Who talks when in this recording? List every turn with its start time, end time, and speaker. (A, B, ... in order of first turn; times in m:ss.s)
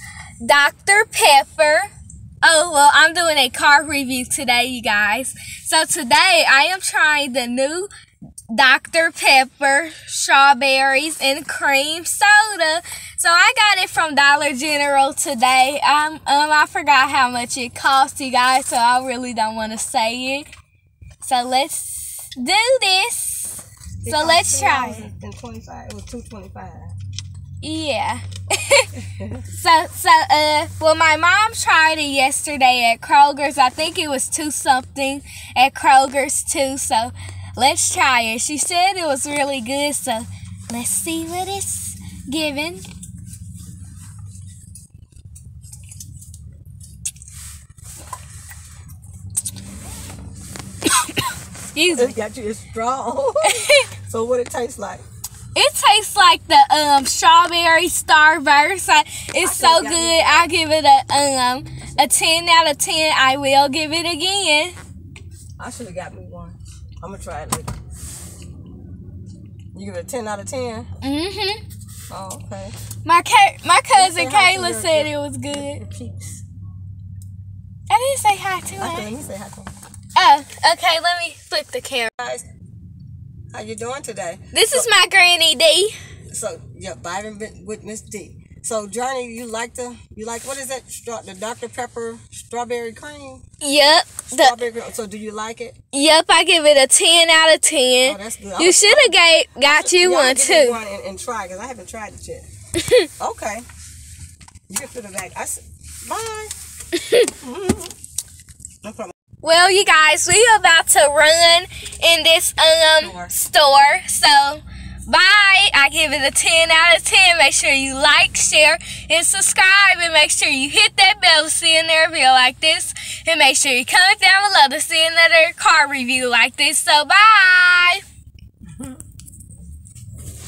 0:00.4-0:01.9 A
0:02.4-0:07.9 A
0:08.5-0:20.5 A
0:21.2-0:25.1 A
0:24.0-0:26.9 B
0:27.6-0:42.8 A
0:29.0-0:29.4 B
0:50.8-0:52.2 A
0:51.9-0:55.0 B
0:53.4-0:53.9 A
0:55.5-1:04.8 A
0:59.4-1:00.5 B
1:05.6-1:07.7 B
1:09.7-1:10.9 B
1:11.0-1:11.6 A
1:12.1-1:12.7 B
1:13.0-1:15.8 A
1:13.9-1:16.4 B
1:17.9-1:19.1 A
1:18.8-1:19.7 B
1:20.1-1:22.1 A
1:22.2-1:22.4 B
1:23.5-1:24.9 B
1:24.5-1:25.9 A
1:26.3-1:33.4 B
1:33.6-1:34.6 A
1:34.3-1:35.8 B
1:35.9-1:40.8 A
1:38.0-1:42.5 B
1:42.8-1:43.1 A
1:43.2-1:43.6 B
1:44.7-1:46.5 B
1:46.9-1:47.3 A
1:47.4-1:47.9 B
1:48.8-1:49.1 B
1:49.4-2:08.0 A
1:53.0-1:53.3 B
2:08.7-2:09.0 B